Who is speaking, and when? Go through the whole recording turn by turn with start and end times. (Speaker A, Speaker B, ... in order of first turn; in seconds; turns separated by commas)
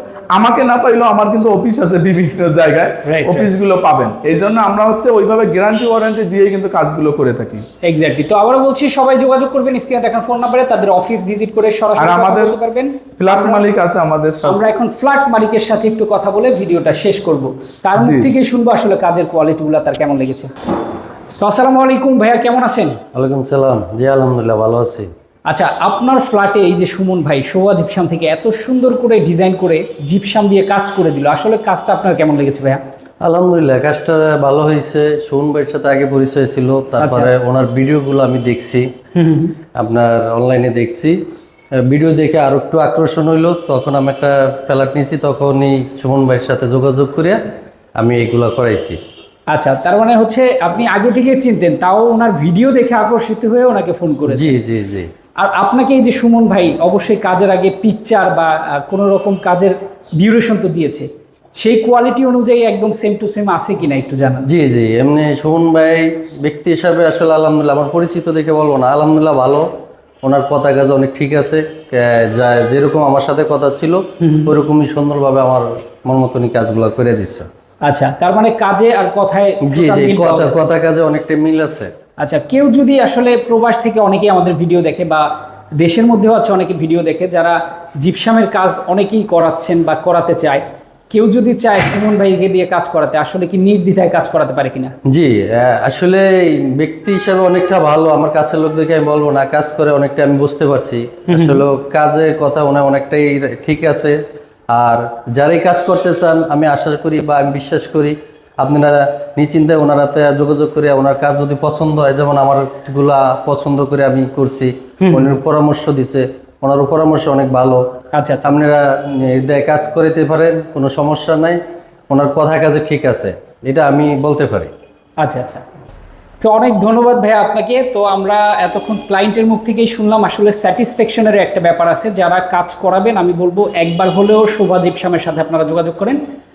Speaker A: 0.3-7.6, Speaker B: 3.1-3.5, Speaker B: 7.8-13.7, Speaker A: 12.0-12.6, Speaker A: 13.2-14.7, Speaker B: 14.4-20.5, Speaker A: 18.0-18.3, Speaker B: 21.4-23.0, Speaker C: 23.1-25.1, Speaker B: 25.5-32.8, Speaker C: 33.2-38.9, Speaker B: 37.0-37.3, Speaker B: 39.1-39.5, Speaker C: 39.8-41.2, Speaker C: 41.8-47.4, Speaker C: 48.0-49.0, Speaker B: 49.5-54.6, Speaker C: 54.3-55.1, Speaker B: 55.4-64.5, Speaker C: 64.5-69.6, Speaker C: 70.2-77.5, Speaker B: 74.2-74.5, Speaker B: 77.8-80.7, Speaker C: 79.7-81.9, Speaker B: 82.2-85.2, Speaker B: 85.8-95.0, Speaker C: 95.1-104.2, Speaker B: 101.3-101.6, Speaker C: 104.7-117.8, Speaker B: 115.0-115.3, Speaker B: 118.1-118.5, Speaker C: 118.4-124.7, Speaker B: 125.2-125.6, Speaker B: 126.4-136.2